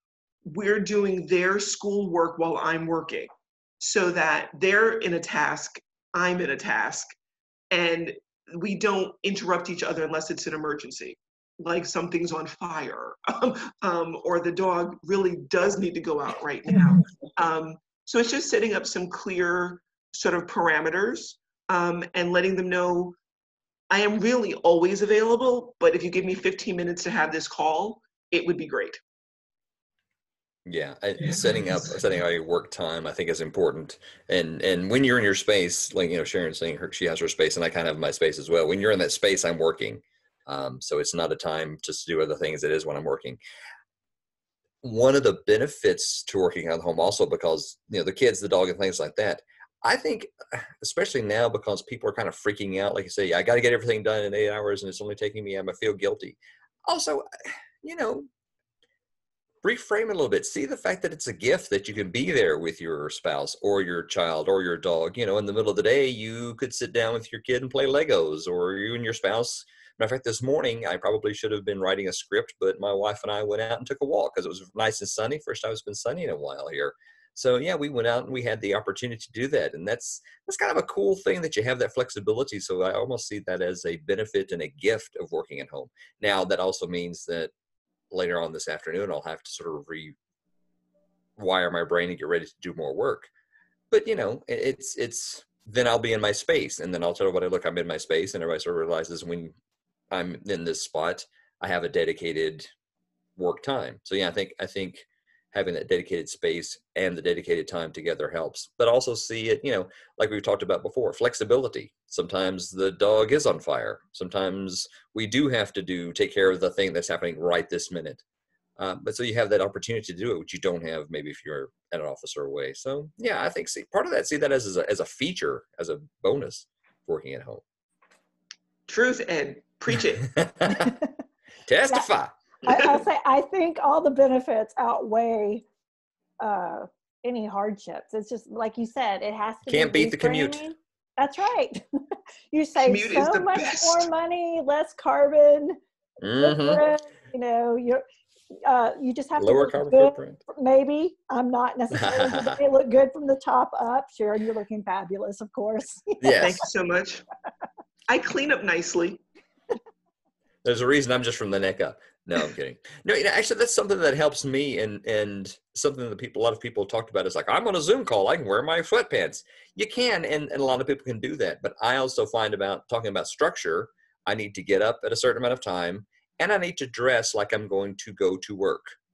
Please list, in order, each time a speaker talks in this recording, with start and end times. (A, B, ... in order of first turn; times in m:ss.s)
0:00.5-0:03.3 A
0:03.8-0:07.1 A
0:07.7-0:23.2 A
0:23.9-0:29.0 A
0:30.7-0:43.4 B
0:44.8-0:58.3 B
0:59.6-1:27.5 B
1:28.1-1:30.2 B
1:31.4-1:33.3 B
1:33.9-1:39.5 B
1:40.1-1:42.7 B
1:43.4-1:58.2 B
1:58.8-2:07.6 B
2:08.9-2:10.3 A
2:10.3-2:11.0 B
2:10.7-2:11.1 C
2:11.7-2:12.4 B
2:12.6-2:15.6 C
2:16.4-2:25.8 C
2:19.7-2:20.6 B
2:22.8-2:24.1 A
2:26.2-2:26.8 B
2:26.4-2:28.0 C
2:28.6-2:36.4 C
2:29.4-2:30.4 B
2:31.9-2:32.6 B
2:36.2-2:36.6 B
2:36.4-2:37.2 A
2:38.1-2:39.2 A
2:40.6-2:59.0 B